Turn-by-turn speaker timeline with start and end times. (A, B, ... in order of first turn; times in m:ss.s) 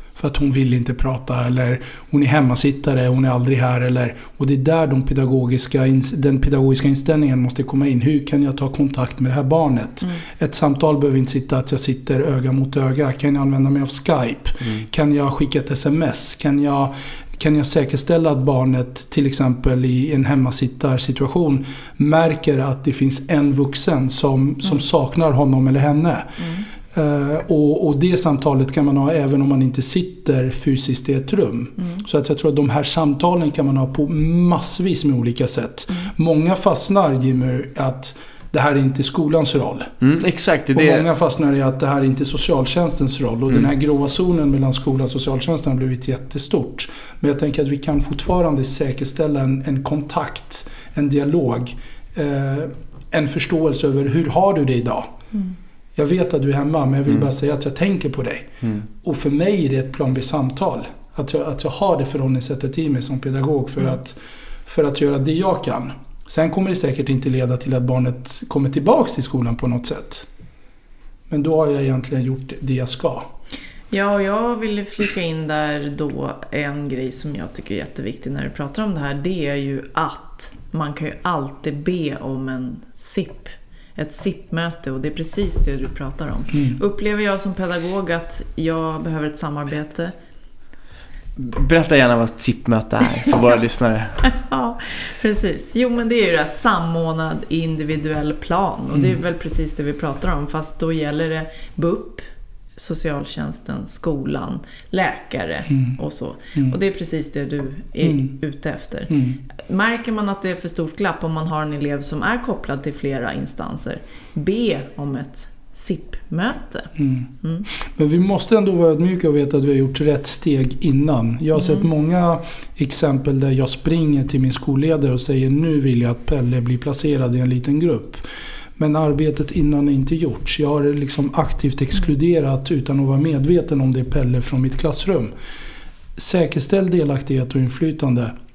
0:00.2-0:39.9 A
0:40.0-0:41.1 B
0:40.7-0:55.1 A
0:56.0-1:10.3 A
1:11.3-1:13.3 A
1:13.9-1:30.1 C
1:31.4-1:34.2 B
1:34.2-1:42.3 C
1:42.8-1:57.7 C
1:48.0-1:48.3 A
1:49.1-1:49.4 A
1:57.0-2:08.2 A
2:01.6-2:01.8 C
2:08.8-2:15.3 A
2:16.2-2:18.3 A